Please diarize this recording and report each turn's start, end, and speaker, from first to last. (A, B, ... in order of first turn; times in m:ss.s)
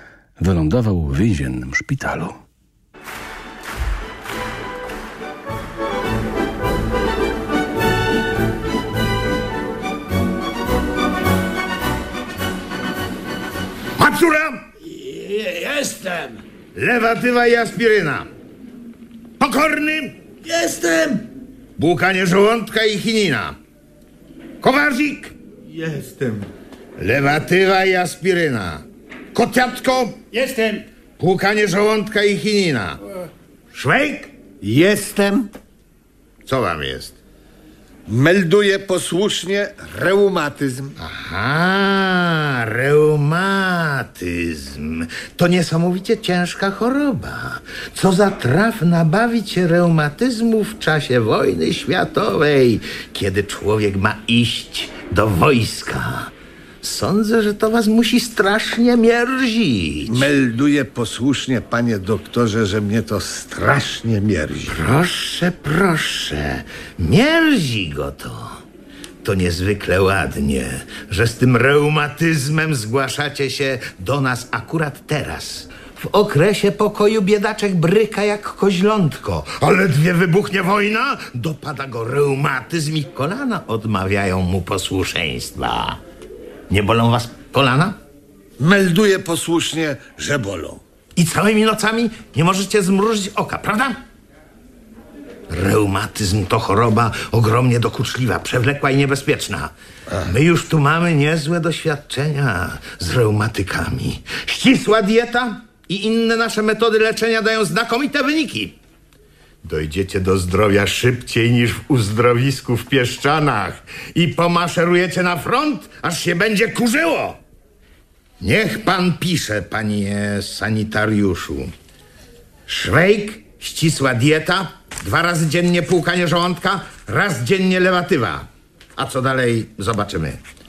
0:00.4-0:02.4 A
0:14.0-0:14.6 B
0:14.9-0:16.4 C
0:16.8-0:18.3 B
0:19.4-0:20.2 B
0:20.5-0:21.2 C
0:21.8-0:23.6 B
0:24.6-0:25.3 B
0:25.8-0:26.5 C
0:27.0-0:30.2 B
0:30.3-0:30.8 C
0:31.2-0:33.0 B
0:33.7-0:34.4 B
0:34.6-0:35.2 D
0:35.2-0:35.4 B
0:36.5-0:37.2 B
0:38.1-0:40.9 D
0:41.0-0:56.3 B
0:56.8-1:00.2 B
1:00.1-1:04.7 D
1:04.7-1:08.5 B
1:09.2-1:26.0 B
1:26.7-1:28.0 B
1:28.6-1:30.8 D
1:31.2-1:34.0 B
1:35.5-1:48.8 B
1:49.6-1:57.4 B
1:58.4-2:01.7 B
2:02.7-2:10.4 B